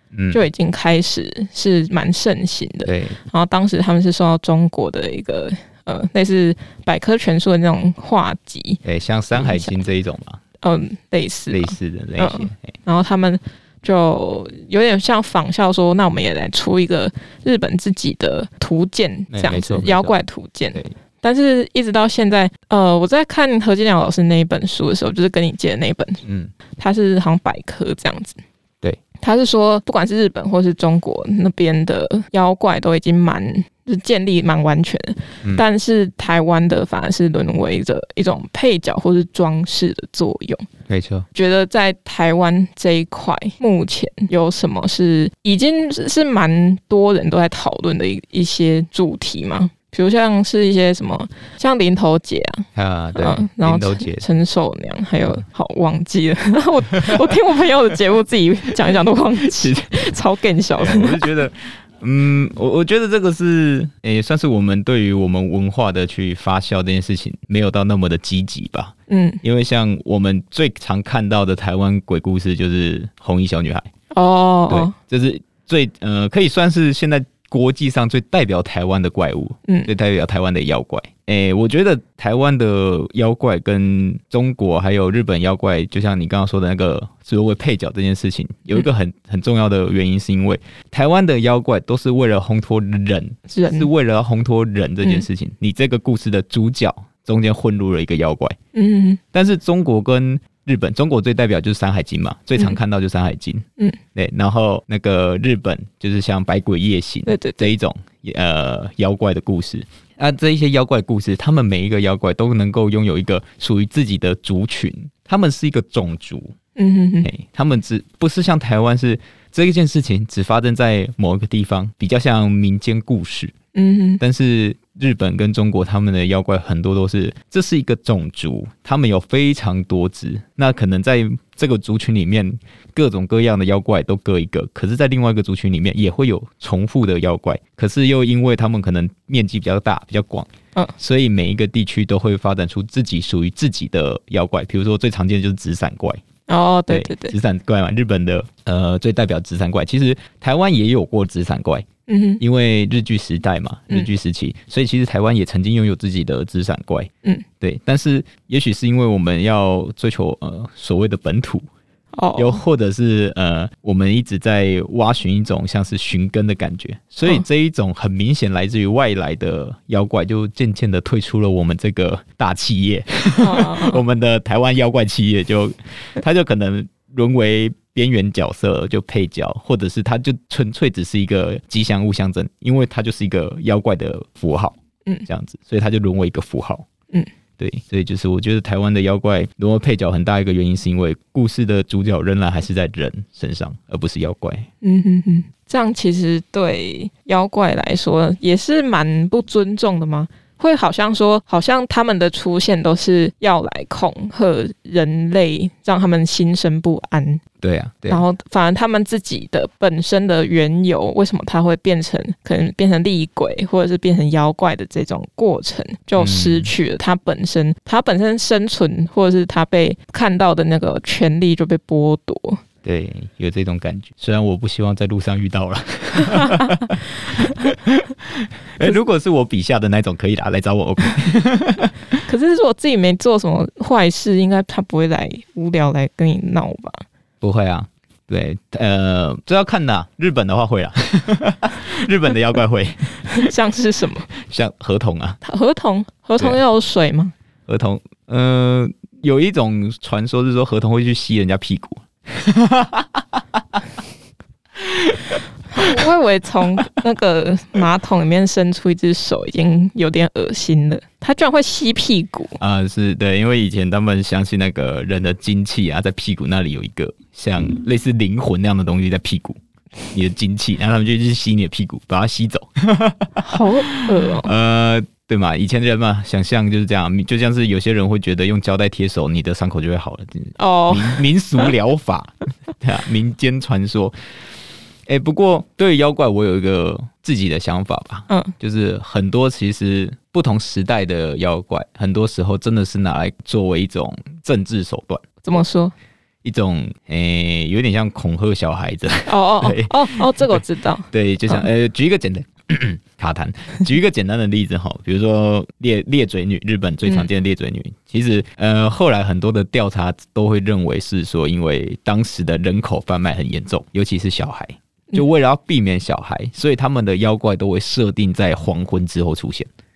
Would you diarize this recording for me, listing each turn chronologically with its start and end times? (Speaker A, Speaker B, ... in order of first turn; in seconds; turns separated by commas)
Speaker A: 0.1-0.4, Speaker B: 0.3-8.8, Speaker A: 2.9-3.2, Speaker A: 8.8-10.4, Speaker B: 9.3-9.7, Speaker B: 10.6-26.2, Speaker A: 11.5-12.7, Speaker A: 19.3-20.1, Speaker A: 26.2-26.5, Speaker B: 26.8-28.4, Speaker B: 29.2-40.7, Speaker A: 40.9-41.3, Speaker B: 41.3-61.3, Speaker A: 52.8-54.2, Speaker A: 57.0-57.3, Speaker A: 59.4-60.1, Speaker A: 60.8-73.9, Speaker B: 69.1-69.4, Speaker B: 74.1-75.0, Speaker A: 74.7-98.6, Speaker B: 93.5-93.9, Speaker B: 98.8-99.2, Speaker A: 99.3-103.6, Speaker A: 104.2-116.5, Speaker B: 107.3-107.7, Speaker B: 116.8-117.3, Speaker A: 117.2-123.5, Speaker B: 123.8-124.2, Speaker A: 124.2-146.2, Speaker B: 146.5-147.3, Speaker A: 146.9-151.9, Speaker B: 152.1-152.4, Speaker A: 152.4-161.7, Speaker B: 162.1-162.6, Speaker A: 162.4-186.9, Speaker B: 173.4-174.0, Speaker A: 187.6-194.7, Speaker B: 194.8-207.4, Speaker A: 207.6-208.2, Speaker B: 208.1-222.6, Speaker A: 216.2-216.7, Speaker A: 222.8-231.9, Speaker B: 232.3-237.0, Speaker A: 237.4-243.5, Speaker B: 243.2-244.3, Speaker A: 244.3-245.4, Speaker B: 245.4-247.3, Speaker A: 247.7-253.8, Speaker A: 254.8-256.0, Speaker B: 255.7-262.6, Speaker A: 262.6-269.6, Speaker A: 270.1-284.1, Speaker B: 273.4-274.5, Speaker B: 280.6-281.2, Speaker A: 285.1-295.2, Speaker B: 295.4-295.9, Speaker A: 296.4-319.7, Speaker B: 299.3-301.6